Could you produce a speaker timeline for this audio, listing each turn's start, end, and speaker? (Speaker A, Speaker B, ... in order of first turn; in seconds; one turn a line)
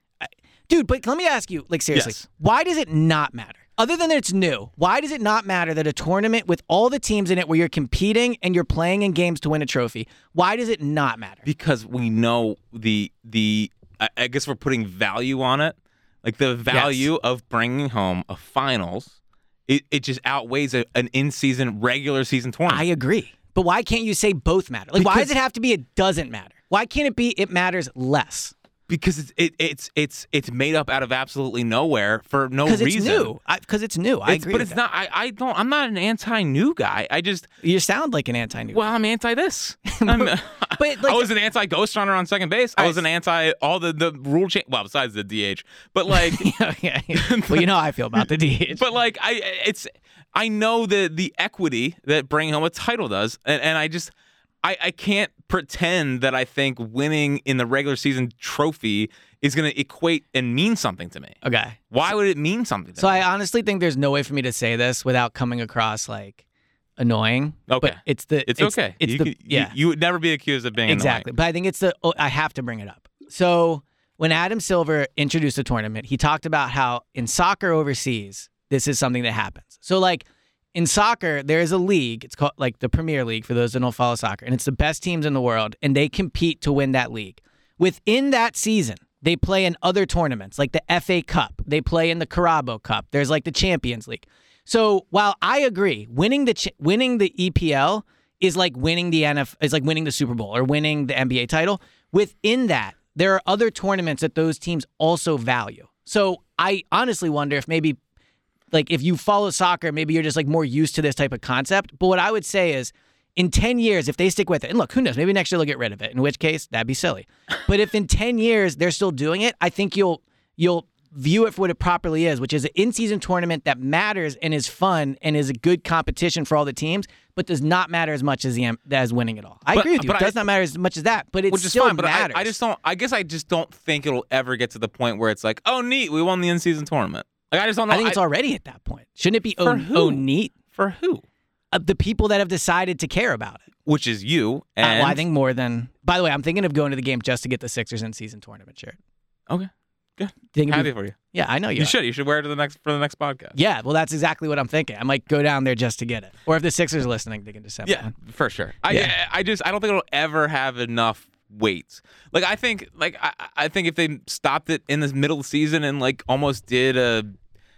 Speaker A: 0.2-11.4
Speaker B: 1.9-2.2
Speaker B: 11.4-19.1
Speaker A: 16.7-17.1
Speaker B: 19.7-22.8
Speaker A: 22.7-28.5
Speaker B: 24.9-25.3
Speaker B: 28.9-33.3
Speaker A: 32.6-34.8
Speaker B: 34.3-37.5
Speaker A: 37.6-38.8
Speaker B: 38.7-46.5
Speaker A: 39.9-41.3
Speaker A: 46.1-48.8
Speaker B: 47.1-61.4
Speaker A: 61.4-61.8
Speaker B: 61.9-63.2
Speaker A: 63.0-66.4
Speaker A: 67.0-69.7
Speaker B: 67.7-71.3
Speaker A: 70.9-108.0
Speaker A: 108.7-132.6
Speaker B: 129.7-130.4
Speaker B: 131.5-138.2
Speaker A: 137.9-140.5
Speaker B: 139.6-141.2
Speaker A: 141.7-143.7
Speaker B: 143.9-145.2
Speaker A: 144.8-149.0
Speaker B: 149.5-151.2
Speaker A: 150.5-151.9
Speaker B: 151.8-153.6
Speaker A: 153.5-158.1
Speaker B: 157.8-167.3